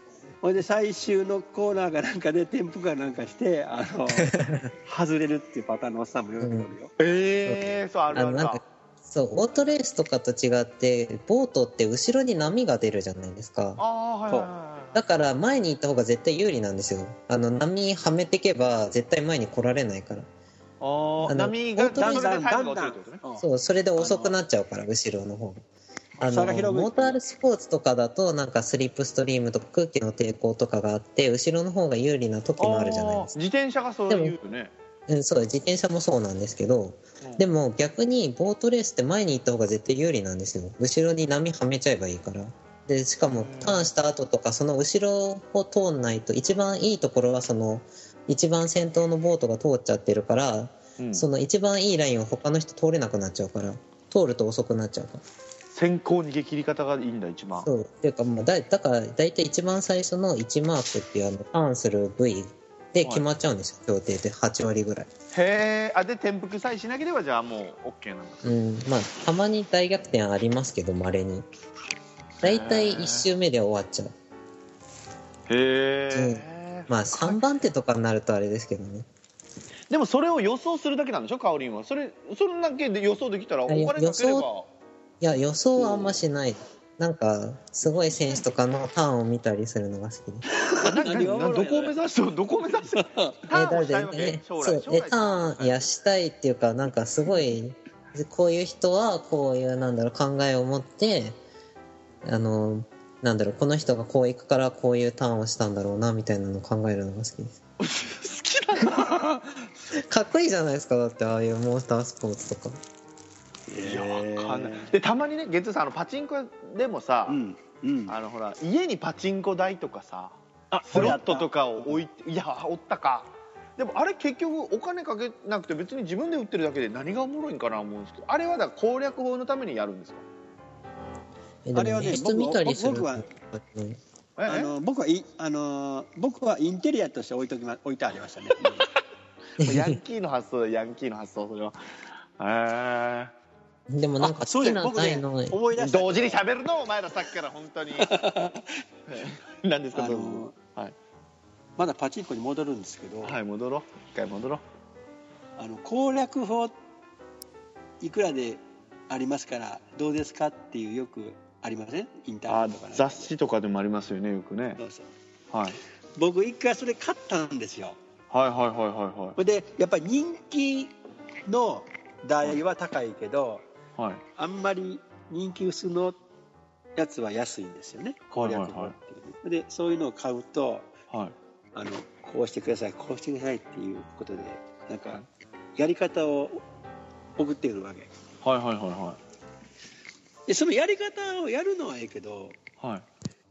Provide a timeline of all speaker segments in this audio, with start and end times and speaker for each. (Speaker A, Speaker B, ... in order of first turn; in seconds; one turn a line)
Speaker A: 0.4-6.9
Speaker B: 4.2-4.7
Speaker B: 6.4-6.7
Speaker C: 7.0-8.6
Speaker B: 7.5-13.8
Speaker C: 13.8-15.1
Speaker B: 14.9-20.3
Speaker C: 20.8-23.2
Speaker B: 21.3-22.2
Speaker A: 21.9-23.5
Speaker B: 23.4-25.6
Speaker A: 24.0-24.4
Speaker B: 26.2-33.3
Speaker A: 26.2-27.2
Speaker C: 32.6-34.7
Speaker B: 34.1-34.4
Speaker B: 35.1-55.2
Speaker C: 37.2-37.5
Speaker C: 43.3-43.9
Speaker C: 51.0-51.3
Speaker C: 55.7-57.7
Speaker B: 57.6-65.1
Speaker C: 65.3-68.5
Speaker B: 68.4-71.5
Speaker C: 72.4-73.3
Speaker B: 72.4-74.1
Speaker C: 75.5-77.5
Speaker B: 76.1-79.1
Speaker C: 79.9-84.7
Speaker B: 83.7-84.5
Speaker B: 85.2-90.5
Speaker A: 85.8-86.2
Speaker C: 88.0-88.4
Speaker A: 90.5-92.0
Speaker C: 90.8-95.9
Speaker A: 92.8-93.4
Speaker B: 93.5-101.4
Speaker B: 102.2-107.6
Speaker C: 107.8-109.9
Speaker B: 108.8-109.1
Speaker B: 109.9-112.8
Speaker A: 113.7-115.0
Speaker C: 113.8-117.4
Speaker A: 117.3-118.2
Speaker C: 118.1-130.2
Speaker A: 120.7-122.0
Speaker B: 131.7-134.0
Speaker A: 131.8-133.3
Speaker C: 134.4-134.7
Speaker A: 134.5-138.9
Speaker C: 139.6-141.8
Speaker B: 139.6-140.0
Speaker C: 142.4-143.3
Speaker B: 143.9-145.6
Speaker A: 144.2-146.4
Speaker C: 145.8-148.1
Speaker A: 148.0-148.8
Speaker C: 149.1-150.9
Speaker A: 149.9-150.6
Speaker A: 151.8-153.4
Speaker C: 153.2-154.6
Speaker A: 155.6-156.8
Speaker A: 158.0-163.3
Speaker C: 162.5-164.8
Speaker A: 164.8-165.1
Speaker C: 165.5-165.8
Speaker A: 166.2-168.0
Speaker C: 168.3-169.4
Speaker A: 169.4-170.9
Speaker A: 171.5-173.7
Speaker C: 174.0-174.2
Speaker A: 174.4-176.2
Speaker A: 177.0-180.9
Speaker C: 178.3-178.9
Speaker A: 181.7-185.2
Speaker A: 185.8-186.6
Speaker A: 187.4-188.1
Speaker C: 188.4-189.2
Speaker A: 190.5-192.6
Speaker C: 192.8-193.1